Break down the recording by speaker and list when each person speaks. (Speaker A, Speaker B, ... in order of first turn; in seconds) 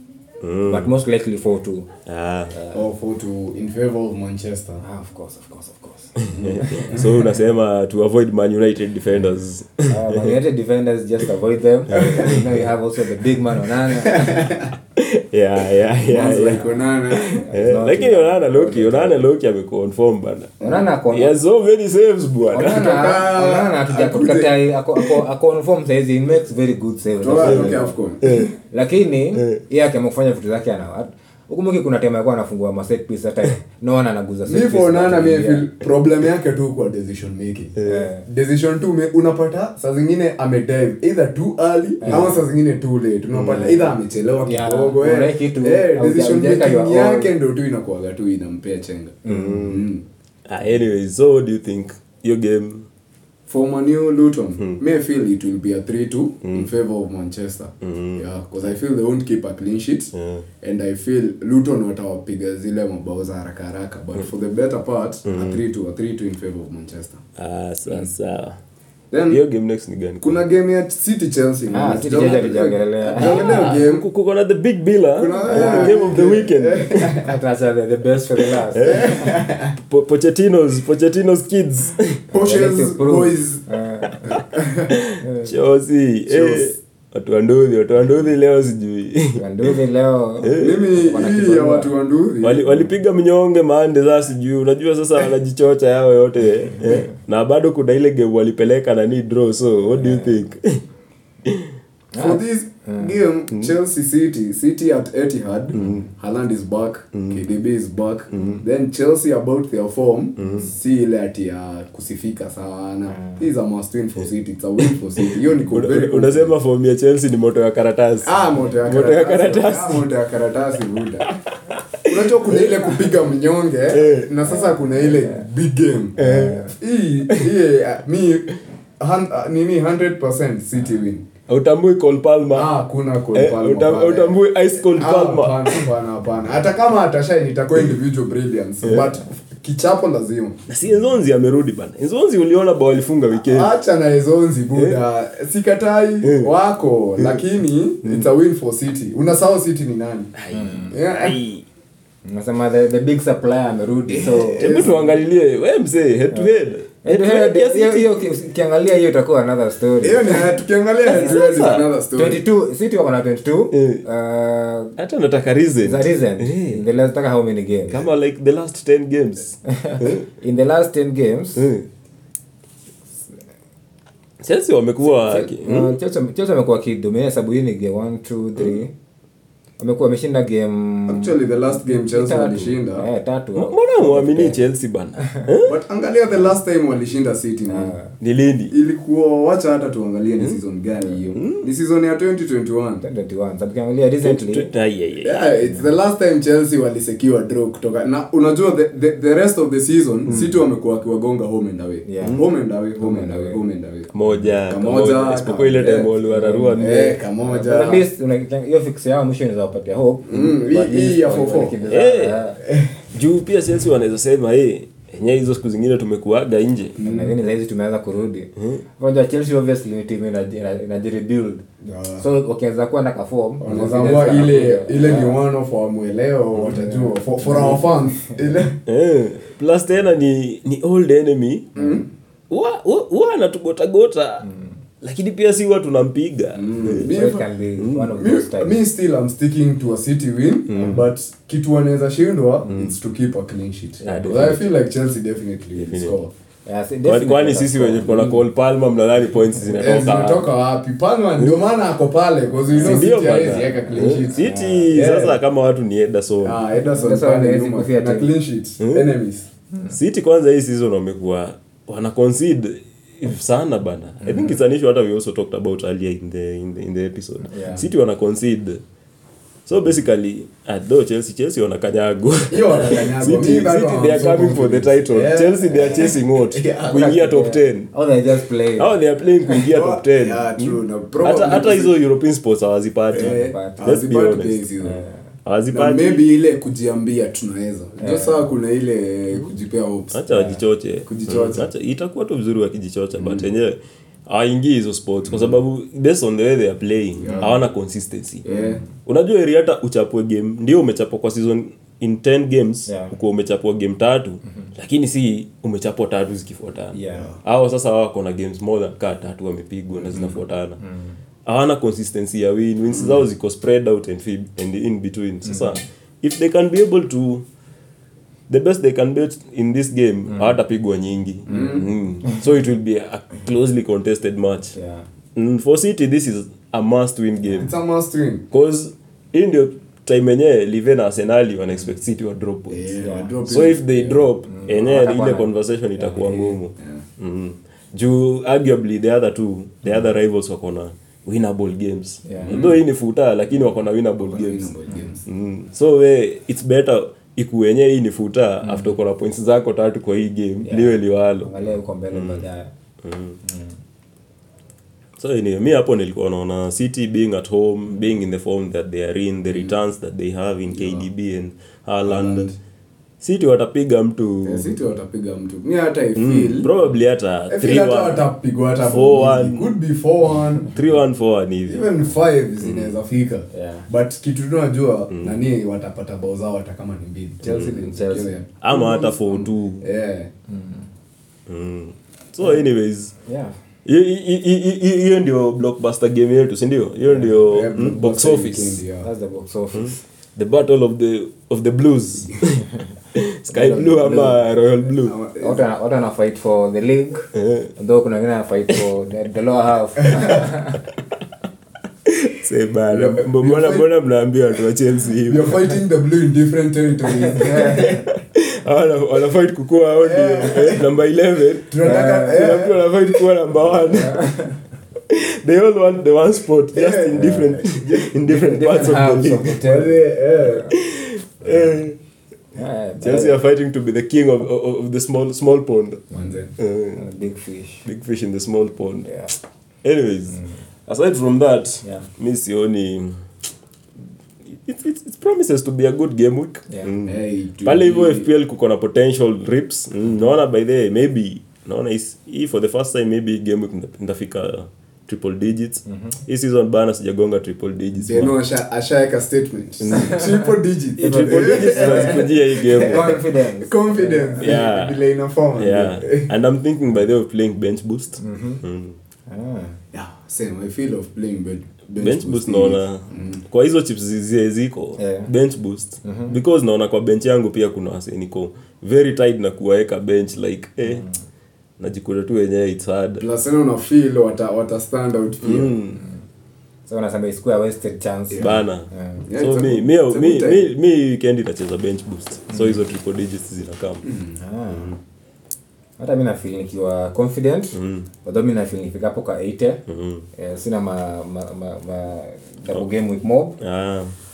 Speaker A: 0.4-0.9, 2.1-2.6, 6.2-10.3, 11.9-12.4, 15.0-20.6, 21.1-22.9, 28.2-28.5, 37.8-38.1, 43.4-43.7, 49.3-49.9, 50.5-52.9, 57.8-58.2, 60.1-60.5, 65.3-65.6, 67.4-68.6, 69.3-70.4, 73.2-77.1, 78.7-79.2, 79.8-82.2, 84.1-89.7, 90.4-90.9, 92.4-100.8, 101.5-101.7, 105.7-106.1, 107.2-107.4, 108.3-108.6, 110.4-110.7, 114.8-118.3, 118.8-120.0, 122.1-122.9, 123.9-124.3, 126.2-126.7, 131.5-132.7, 133.3-135.9, 140.7-143.7, 144.7-145.0, 146.2-146.5, 147.2-147.4, 150.3-151.7, 154.6-158.2, 161.1-161.9, 163.7-164.0, 165.0-166.8, 167.9-170.2, 171.6-171.9, 174.4-175.9, 183.6-185.8, 188.2-188.7, 191.3-191.7, 194.2-195.4, 202.2-202.4, 204.1-207.2, 211.9-212.4, 213.1-217.0, 218.6-218.8, 228.9-231.8, 232.5-234.5, 235.0-237.1, 237.8-238.1, 240.7-241.1, 242.7-242.9, 244.0-244.7, 245.8-246.2, 247.1-250.5, 251.4-251.6, 252.8-256.6, 258.8-259.1, 259.9-268.8, 269.7-277.9, 278.8-284.6, 285.4-286.2, 290.1-298.4, 299.0-310.8, 311.5-317.4, 318.5-324.8, 325.4-327.7, 328.5-332.9, 333.5-344.7, 345.3-351.5, 352.1-352.4, 353.0-353.4, 355.2-362.5, 363.2-364.8, 366.2-368.3, 368.8-369.7, 370.7-371.9, 372.6-372.9, 375.1-375.4, 378.6-379.8, 381.5-383.1, 383.9-388.8, 389.7-395.1, 397.3-397.7, 402.1-405.6, 407.5-414.3, 415.1-419.6, 420.7-422.0, 423.0-426.0, 426.6-427.1, 427.9-429.1, 429.8-433.2, 434.5-448.4, 449.8-450.4, 451.0-453.2, 454.4-455.0, 455.6-459.0, 462.0-471.1, 471.8-473.2, 475.4-476.0, 478.4-484.0, 484.7-485.0, 487.7-488.1, 489.9-490.3, 493.6-494.1
Speaker B: 0.7-1.9, 2.5-2.8, 4.8-6.2, 9.9-14.5, 16.3-16.7, 17.5-19.2, 20.6-21.3, 22.5-28.0, 28.7-35.7, 37.9-38.2, 42.0-42.4, 43.5-47.3, 49.2-49.7, 71.7-73.7, 75.5-76.0, 77.2-79.3, 82.3-84.3, 85.2-85.5, 89.4-91.9, 100.0-100.4, 102.1-103.1, 113.2-113.4, 124.4-125.4, 126.2-126.7, 150.5-151.0, 152.2-154.9, 157.0-160.6, 161.1-161.4, 162.2-165.0, 165.8-168.0, 169.7-171.7, 175.2-178.9, 179.8-184.6, 187.7-188.1, 193.0-194.7, 195.6-195.9, 202.1-202.4, 203.0-203.6, 206.3-206.9, 207.4-212.6, 217.0-221.6, 222.2-225.4, 227.4-228.6, 234.4-234.7, 237.1-238.8, 240.8-241.0, 244.0-244.5, 246.7-248.4, 252.8-253.1, 254.3-254.9, 256.9-258.3, 267.5-267.9, 276.9-278.9, 283.2-283.8, 284.8-285.1, 288.0-288.5, 290.3-290.6, 298.5-298.8, 302.9-303.1, 306.9-307.3, 310.8-311.2, 315.5-315.8, 321.5-322.4, 324.8-325.1, 333.0-333.3, 334.5-335.5, 342.3-342.6, 350.6-352.7, 353.4-353.8, 373.5-373.9, 377.6-378.3, 380.5-380.9, 383.2-383.6, 389.0-390.0, 393.5-394.3, 395.4-400.8, 407.3-408.0, 411.8-412.4, 413.9-414.6, 417.1-417.6, 418.3-420.7, 422.6-423.4, 426.1-426.4, 427.0-427.9, 429.1-429.3, 445.9-446.2, 449.9-450.4, 451.0-454.6, 458.2-458.6, 459.3-459.8, 465.0-465.3, 466.0-466.4, 470.9-471.1, 476.9-479.2, 482.5-482.8, 484.4-484.9, 486.0-489.8, 490.4-493.6
Speaker C: 2.7-4.8, 6.3-7.2, 12.0-12.4, 14.0-14.7, 16.1-17.5, 20.6-20.9, 22.6-24.6, 27.2-28.4, 34.5-50.0, 53.5-67.2, 69.1-69.4, 70.2-74.1, 75.2-77.3, 78.8-79.8, 82.3-83.6, 84.3-85.0, 86.3-86.7, 90.6-92.7, 102.2-116.5, 118.2-121.3, 122.1-131.2, 132.5-140.6, 143.4-150.3, 150.9-151.4, 154.2-155.2, 160.0-162.4, 181.1-183.1, 185.7-188.0, 188.7-193.1, 195.2-204.1, 204.7-206.1, 206.8-208.1, 210.3-211.9, 212.6-212.9, 217.0-217.4, 221.8-222.3, 223.6-228.8, 231.8-232.1, 236.6-237.5, 238.2-246.3, 249.8-255.4, 256.4-259.5, 272.5-277.2, 279.6-281.9, 283.1-285.1, 285.7-290.2, 291.1-291.6, 293.2-293.5, 295.3-295.6, 297.2-297.6, 298.4-298.8, 321.5-321.9, 327.6-328.4, 332.7-334.3, 336.4-337.0, 342.4-342.8, 344.2-345.2, 360.7-361.1, 362.1-362.6, 364.4-366.7, 367.5-370.8, 371.7-380.3, 387.3-389.1, 394.1-394.3, 395.1-395.7, 400.0-400.4, 402.9-403.9, 405.3-408.1, 410.0-410.8, 411.7-412.8, 416.7-418.1, 419.6-420.7, 426.1-426.5, 437.1-438.3, 448.1-456.3, 459.9-463.4, 473.2-475.8, 478.3-478.6, 479.3-480.7, 484.0-484.4